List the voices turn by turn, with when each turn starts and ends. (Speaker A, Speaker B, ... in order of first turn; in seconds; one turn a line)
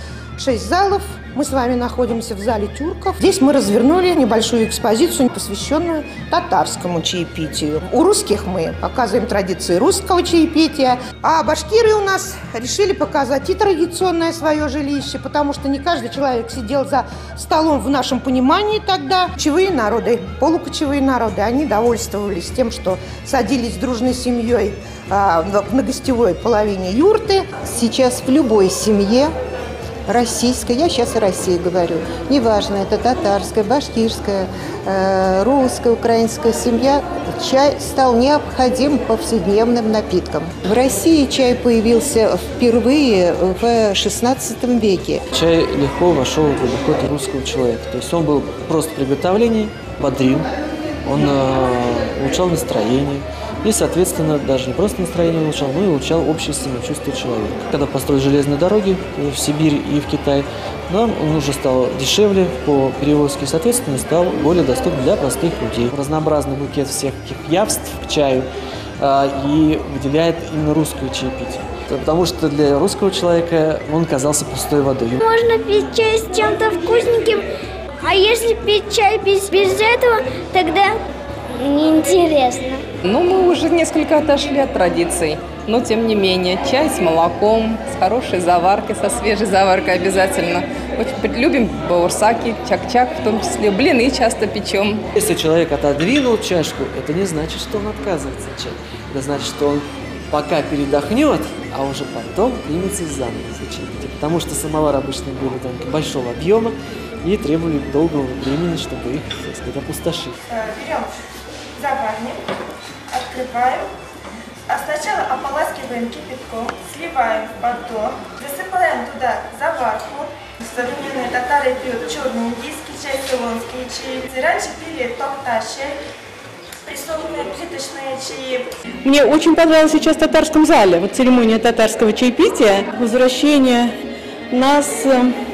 Speaker A: 0.4-27.5
Speaker B: 27.6-29.3
Speaker B: 30.1-45.2
Speaker C: 45.3-50.5
Speaker C: 51.0-68.5
Speaker C: 69.0-75.2
Speaker D: 75.2-77.5
Speaker D: 78.0-81.0
Speaker D: 81.6-82.8
Speaker E: 83.0-95.1
Speaker C: 95.2-110.4
Speaker F: 110.5-111.1
Speaker F: 111.8-112.4
Speaker F: 113.1-113.9
Speaker F: 114.7-126.0
Speaker F: 126.8-128.7
Speaker G: 129.0-133.9
Speaker G: 134.5-135.3